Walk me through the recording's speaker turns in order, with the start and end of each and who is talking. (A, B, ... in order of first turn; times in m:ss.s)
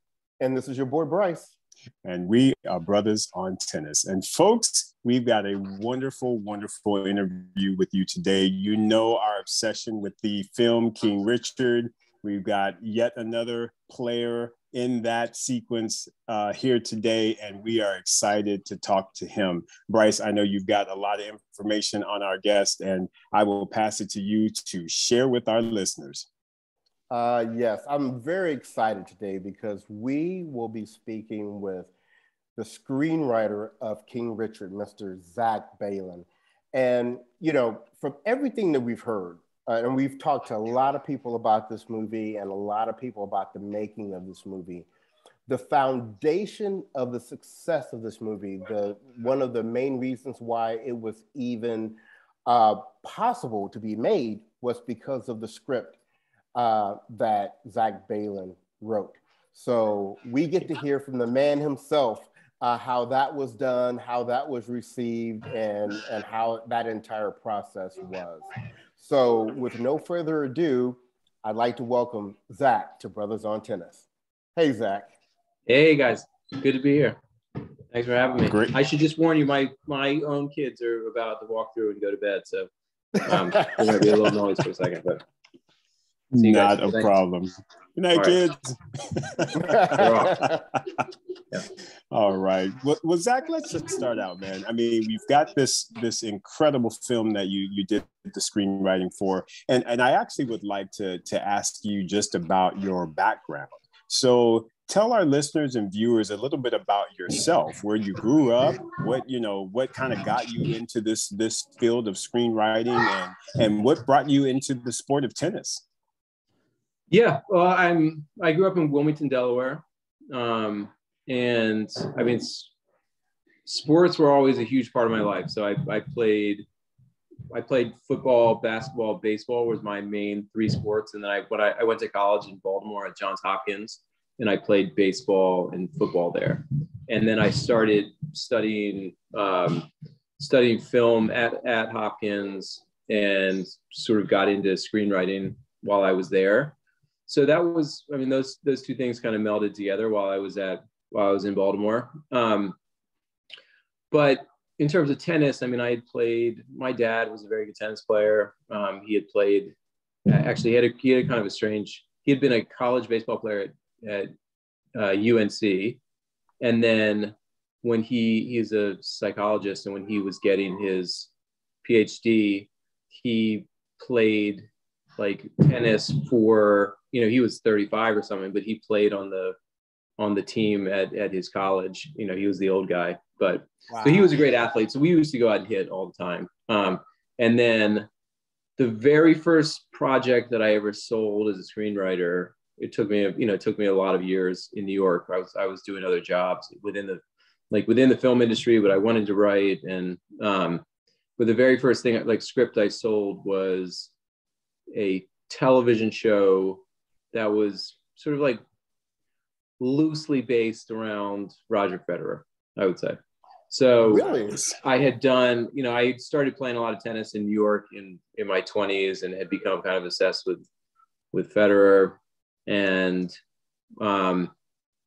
0:00.4-0:01.5 A
0:02.0-0:26.3 B
0:27.1-0:31.9 A
0:32.6-0:44.9 A
0:45.5-0:56.0 A
0:56.5-1:15.1 A
1:15.7-1:17.2 C
1:17.9-1:22.7 C
1:18.5-1:18.7 B
1:23.2-1:25.2 C
1:23.3-1:24.1 A
1:26.3-1:31.0 B
1:26.4-1:27.1 C
1:29.7-1:30.5 A
1:29.9-1:30.4 C
1:32.1-1:55.8 B
1:57.1-2:02.7 C
2:03.6-2:06.6 C
2:07.5-2:19.9 C
2:20.4-2:26.7 C
2:27.3-2:32.8 C
2:34.1-2:39.7 C
2:40.2-2:44.3 C
2:44.9-2:46.0 C
2:46.6-2:51.3 C
2:51.8-2:54.7 C
2:55.2-2:59.6 C
3:00.2-3:08.1 C
3:08.8-3:20.8 C
3:21.4-3:24.1 C
3:24.9-3:28.6 C
3:29.8-3:33.2 C
3:33.7-3:34.3 C
3:34.1-3:34.5 A
3:34.4-3:34.8 B
3:34.8-3:40.6 C
3:41.3-3:43.3 C
3:44.0-3:44.5 C